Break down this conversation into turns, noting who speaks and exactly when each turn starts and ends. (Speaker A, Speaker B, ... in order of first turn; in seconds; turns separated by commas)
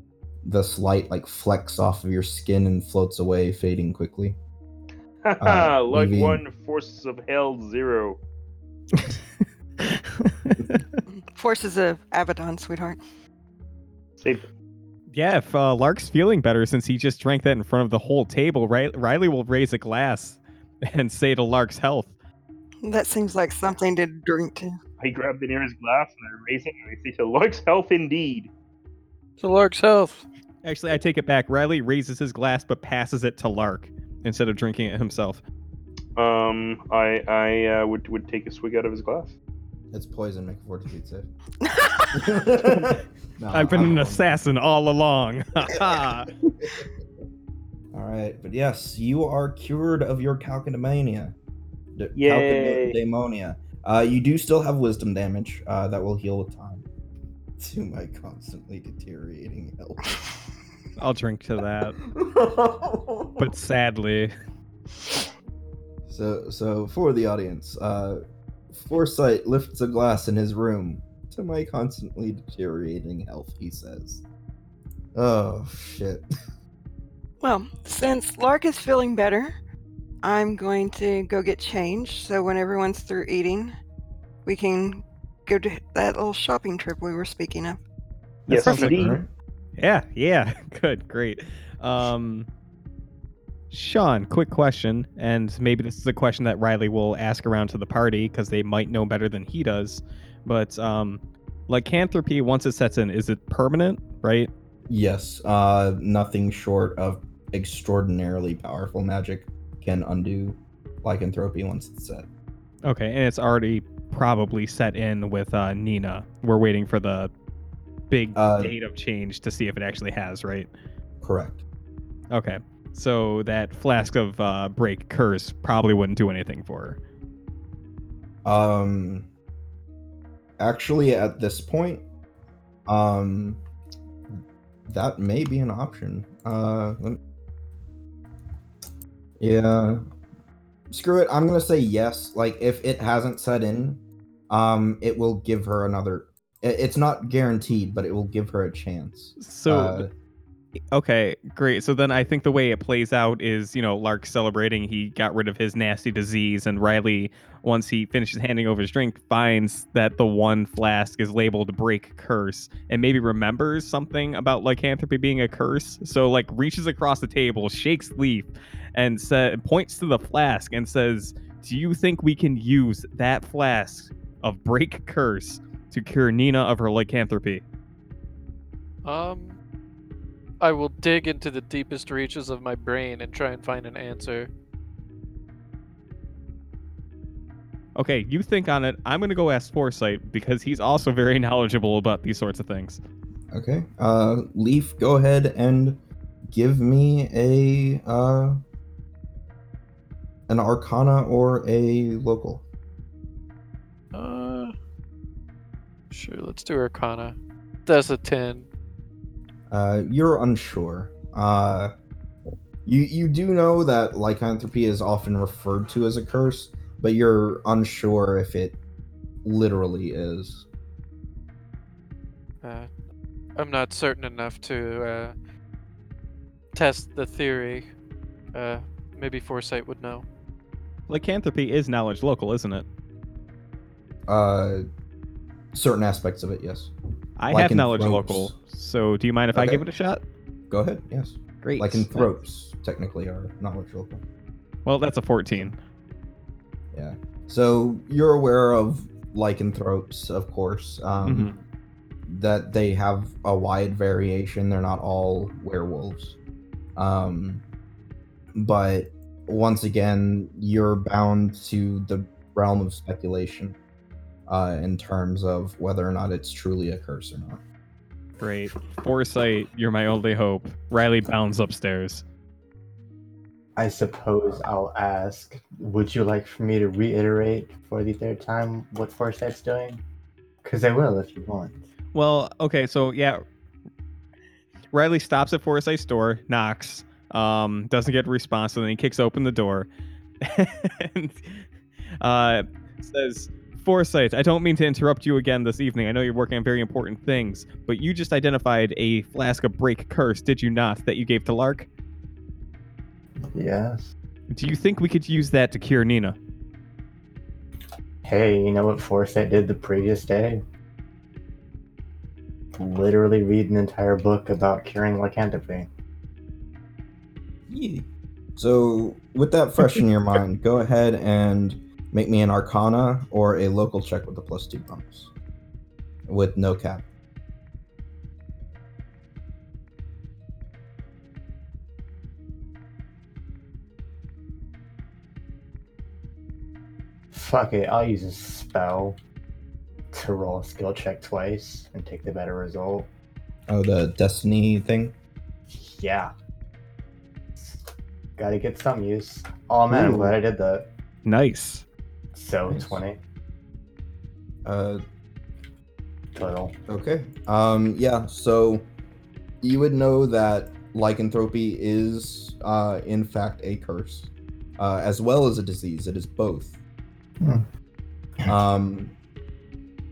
Speaker A: 0.4-4.4, Speaker B: 5.2-8.2, Speaker A: 5.4-6.4, Speaker C: 8.9-11.0, Speaker D: 11.3-13.0, Speaker B: 14.2-14.5, Speaker C: 15.1-22.1, Speaker D: 22.8-24.8, Speaker B: 25.0-28.5, Speaker E: 29.4-30.3, Speaker C: 30.6-35.4, Speaker B: 36.1-39.3, Speaker A: 39.9-41.3, Speaker D: 41.6-42.2, Speaker A: 42.2-44.2, Speaker C: 43.5-46.3, Speaker A: 46.6-46.9, Speaker A: 47.9-51.4, Speaker A: 52.0-56.9, Speaker B: 52.1-53.0, Speaker A: 57.6-60.2, Speaker C: 61.0-62.0, Speaker A: 62.1-63.5, Speaker C: 63.4-64.3, Speaker A: 66.1-68.2, Speaker A: 68.7-74.2, Speaker A: 75.1-76.2, Speaker D: 77.4-79.5, Speaker D: 80.2-83.7, Speaker D: 84.4-87.8, Speaker A: 88.5-89.3, Speaker B: 88.5-89.2, Speaker C: 88.6-89.0, Speaker C: 89.8-92.5, Speaker C: 93.7-104.5, Speaker A: 104.9-112.3, Speaker C: 112.8-117.3, Speaker C: 118.1-120.7, Speaker A: 118.3-118.8, Speaker A: 121.2-121.6, Speaker C: 122.3-127.0, Speaker A: 128.4-129.3, Speaker A: 130.6-132.1, Speaker A: 132.8-133.6, Speaker A: 134.3-137.2, Speaker A: 139.4-140.0, Speaker A: 140.9-150.1, Speaker C: 149.4-150.1, Speaker C: 150.9-177.6, Speaker E: 179.0-179.6, Speaker E: 180.6-184.5, Speaker C: 187.9-193.0, Speaker A: 193.5-198.6, Speaker A: 200.5-202.7, Speaker E: 204.1-204.7, Speaker E: 206.1-208.7, Speaker A: 209.7-211.9, Speaker A: 212.8-218.8, Speaker A: 219.4-220.7, Speaker E: 222.6-222.9, Speaker E: 223.6-225.3, Speaker E: 226.7-227.9, Speaker E: 228.5-230.2, Speaker C: 231.1-232.8, Speaker A: 234.3-234.8, Speaker A: 235.7-236.9, Speaker C: 237.4-240.2, Speaker A: 237.5-238.5, Speaker A: 239.5-239.8, Speaker A: 240.7-244.2, Speaker C: 241.6-242.3, Speaker C: 244.8-245.8, Speaker A: 246.9-251.6, Speaker C: 251.2-251.6, Speaker A: 252.3-256.4, Speaker A: 256.9-257.6, Speaker A: 258.5-263.8, Speaker A: 264.5-267.6, Speaker C: 268.4-272.2, Speaker F: 273.8-280.0, Speaker F: 280.6-281.9, Speaker C: 282.1-283.4, Speaker C: 284.9-289.9, Speaker C: 290.4-291.6, Speaker C: 292.1-301.9, Speaker F: 303.4-304.1, Speaker C: 304.5-306.4, Speaker F: 308.2-310.6, Speaker F: 312.8-315.9, Speaker A: 317.7-318.0, Speaker A: 318.6-325.3, Speaker A: 326.3-327.1, Speaker F: 337.3-339.2, Speaker F: 340.1-343.1, Speaker A: 343.7-345.1, Speaker F: 345.7-346.3, Speaker F: 347.6-350.9, Speaker A: 349.9-350.3, Speaker C: 351.2-351.9, Speaker F: 352.3-353.2, Speaker A: 352.7-353.0, Speaker A: 354.6-355.0, Speaker F: 356.3-356.7, Speaker A: 356.9-358.9, Speaker A: 359.6-366.8, Speaker F: 367.4-367.6, Speaker A: 368.4-369.1